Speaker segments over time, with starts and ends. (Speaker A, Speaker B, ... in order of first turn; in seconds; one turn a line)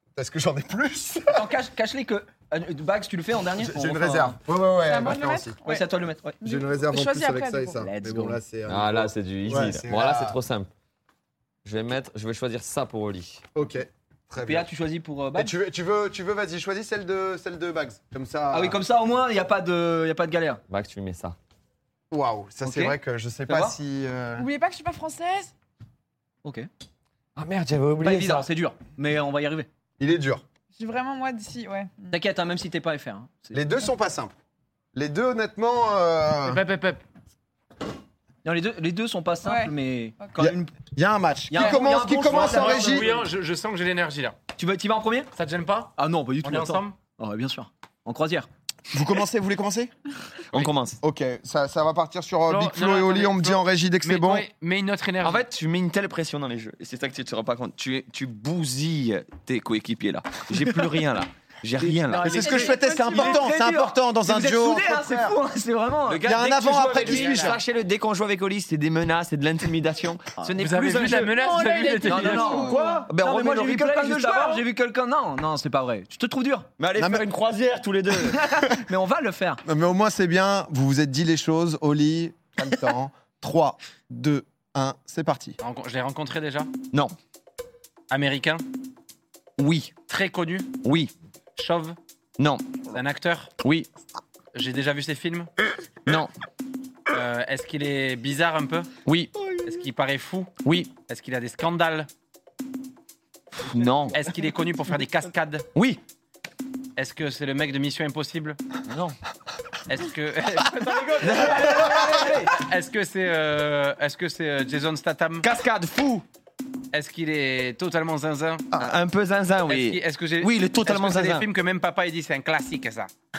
Speaker A: 0.2-1.5
Speaker B: 1.3-4.4
Speaker A: 3.6-5.6
Speaker C: 4.8-5.9
Speaker B: 5.7-6.4
Speaker C: 6.4-7.8
Speaker A: 6.4-10.4
Speaker B: 7.8-8.4
Speaker D: 8.7-10.7
Speaker D: 11.7-13.4
Speaker A: 13.6-14.7
Speaker B: 14.4-15.6
Speaker A: 15.3-18.8
Speaker B: 18.5-20.6
Speaker D: 20.7-21.4
Speaker A: 22.1-24.5
Speaker B: 22.6-23.8
Speaker C: 24.4-25.5
Speaker B: 26.4-26.7
Speaker D: 27.4-28.5
Speaker B: 28.0-29.7
Speaker A: 30.0-30.4
Speaker C: 30.8-32.2
Speaker B: 32.1-33.8
Speaker A: 33.5-34.3
Speaker A: 34.9-36.6
Speaker E: 36.5-37.0
Speaker B: 38.4-40.7
Speaker C: 39.4-39.7
Speaker A: 40.4-43.1
Speaker B: 41.5-43.2
Speaker E: 41.6-44.4
Speaker B: 44.6-45.3
Speaker E: 45.4-47.0
Speaker B: 46.0-48.5
Speaker A: 48.9-49.9
Speaker D: 50.5-51.0
Speaker A: 51.0-54.5
Speaker E: 52.5-55.5
Speaker D: 55.2-62.4
Speaker B: 61.8-66.3
Speaker A: 62.2-65.4
Speaker C: 62.3-63.4
Speaker D: 66.1-71.4
Speaker A: 66.2-67.6
Speaker E: 67.0-67.6
Speaker E: 70.6-72.7
Speaker C: 71.3-73.1
Speaker D: 72.1-74.6
Speaker B: 72.1-76.7
Speaker D: 76.8-78.4
Speaker A: 77.0-77.3
Speaker B: 78.3-79.6
Speaker A: 79.7-85.6
Speaker E: 85.6-86.7
Speaker E: 88.1-88.6
Speaker D: 89.6-89.9
Speaker E: 90.1-90.7
Speaker D: 90.8-91.1
Speaker E: 91.6-92.0
Speaker D: 92.4-92.8
Speaker E: 92.9-93.5
Speaker D: 93.6-93.9
Speaker E: 94.5-95.5
Speaker D: 96.1-96.3
Speaker E: 97.1-98.9
Speaker D: 99.0-99.4
Speaker E: 99.6-100.5
Speaker D: 100.6-100.9
Speaker E: 101.1-102.1
Speaker D: 103.6-104.2
Speaker E: 104.1-105.7
Speaker D: 105.8-106.0
Speaker E: 107.0-108.6
Speaker D: 108.9-109.2
Speaker E: 109.9-115.5
Speaker D: 111.2-112.3
Speaker B: 111.2-112.5
Speaker D: 115.4-116.2
Speaker E: 116.9-118.7
Speaker D: 118.7-121.5
Speaker E: 119.7-123.1